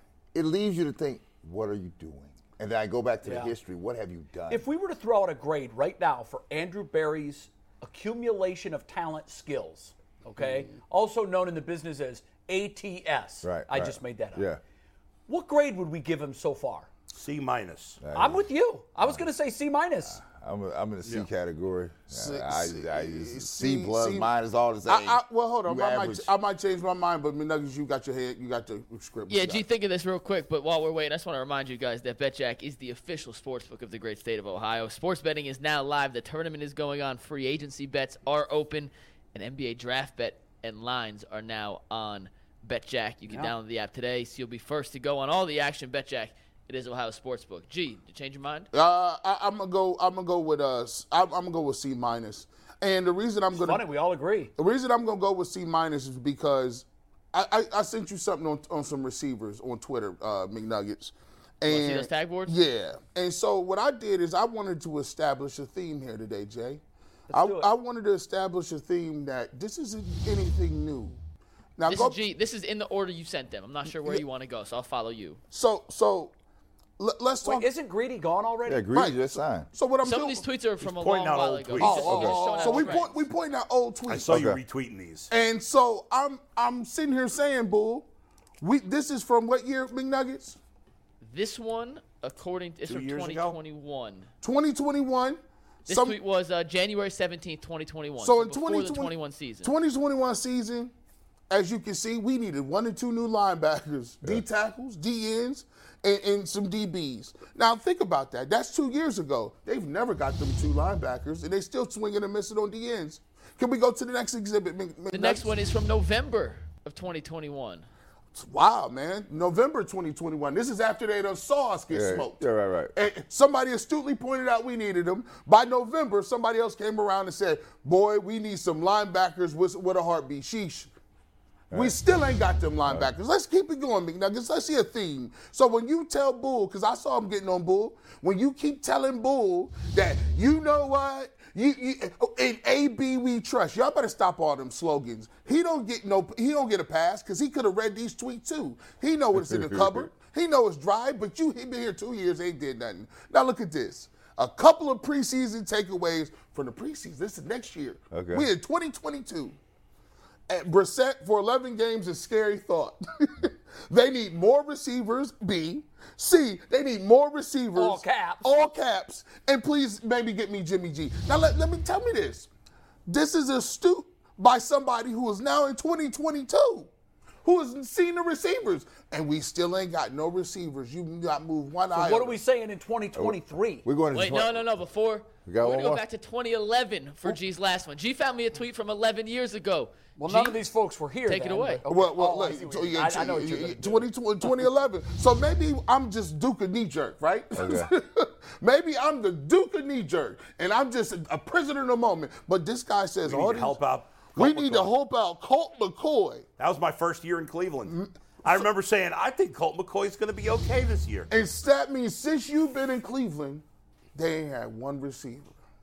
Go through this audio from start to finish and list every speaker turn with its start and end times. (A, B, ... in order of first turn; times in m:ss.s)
0:00.3-0:04.6 A
0:03.2-0:03.5 B
0:04.5-0:14.4 B
0:13.4-0:14.6 A
0:15.3-0:16.9 B
0:17.1-0:18.0 C
0:18.0-0:18.4 A
0:18.1-0:20.2 B
0:20.0-0:26.3 A
0:22.1-0:24.3 D
0:24.8-0:29.6 D
0:29.3-0:48.7 E
0:43.3-0:43.5 B
0:48.7-0:53.8 D
0:53.5-0:54.5 B
0:54.6-1:11.2 D
1:01.7-1:02.5 E
1:07.3-1:07.7 B
1:11.8-1:12.2 D
1:11.9-1:15.4 E
1:15.5-1:16.3 D
1:17.0-1:17.7 D
1:17.4-1:18.9 B
1:18.7-1:19.7 A
1:18.9-1:20.4 D
1:20.0-1:23.2 E
1:20.8-1:22.2 C
1:21.8-1:24.3 D
1:22.2-1:23.0 B
1:24.1-1:25.3 C
1:24.3-1:24.6 A
1:25.3-1:28.1 D
1:28.6-1:30.6 D
1:31.2-1:34.3 E
1:32.8-1:33.6 C
1:34.4-1:36.2 D
1:35.9-1:39.7 E
1:38.2-1:40.9 D
1:41.5-1:55.5 D
1:55.1-1:57.9 E
1:58.4-2:10.9 D
2:01.9-2:02.9 A
2:11.7-2:12.0 A
2:11.7-2:39.6 D
2:12.9-2:13.1 A
2:29.3-2:30.1 A
2:38.1-2:38.5 A
2:40.5-2:52.5 D
2:47.7-2:48.5 B
2:53.1-2:56.9 D
2:57.4-3:02.4 D
3:01.9-3:03.8 B
3:03.1-3:04.6 A
3:04.1-3:10.6 E
3:05.4-3:06.0 A
3:10.2-3:14.5 B
3:11.2-3:11.8 E
3:11.9-3:23.8 D
3:17.5-3:17.9 A
3:23.2-3:24.9 C
3:24.3-3:26.4 D
3:26.6-3:31.3 C
3:27.9-3:28.7 D
3:31.3-3:33.6 D
3:34.1-3:35.5 D